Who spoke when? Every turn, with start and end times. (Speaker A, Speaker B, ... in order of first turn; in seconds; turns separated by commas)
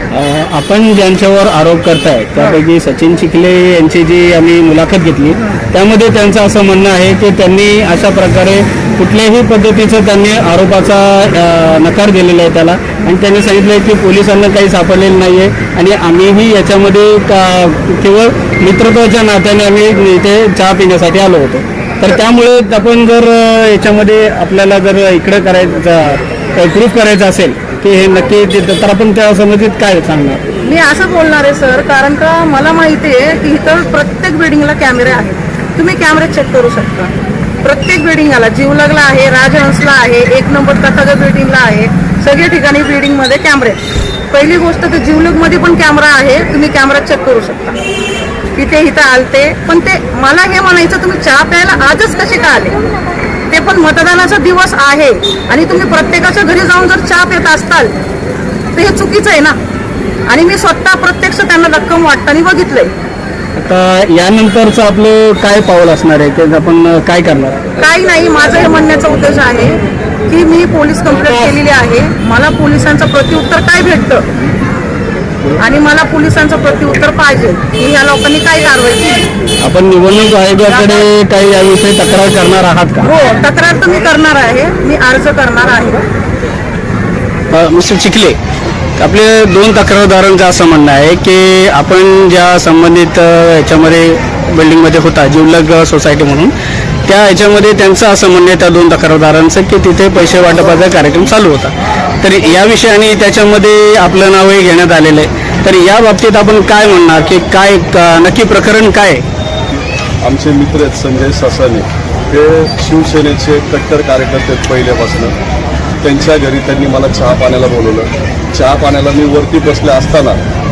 Speaker A: 0.1-30.4, Speaker B: 5.3-5.6, Speaker B: 30.6-47.8, Speaker B: 48.5-52.8, Speaker B: 53.5-57.9, Speaker B: 58.7-59.6, Speaker B: 60.3-62.9, Speaker A: 63.5-67.6, Speaker B: 67.8-74.3, Speaker B: 75.6-79.2, Speaker A: 79.6-83.1, Speaker B: 80.6-81.0, Speaker B: 83.0-86.0, Speaker A: 87.5-88.4, Speaker A: 89.0-96.5, Speaker A: 97.0-109.2, Speaker C: 109.7-115.3, Speaker C: 116.0-120.4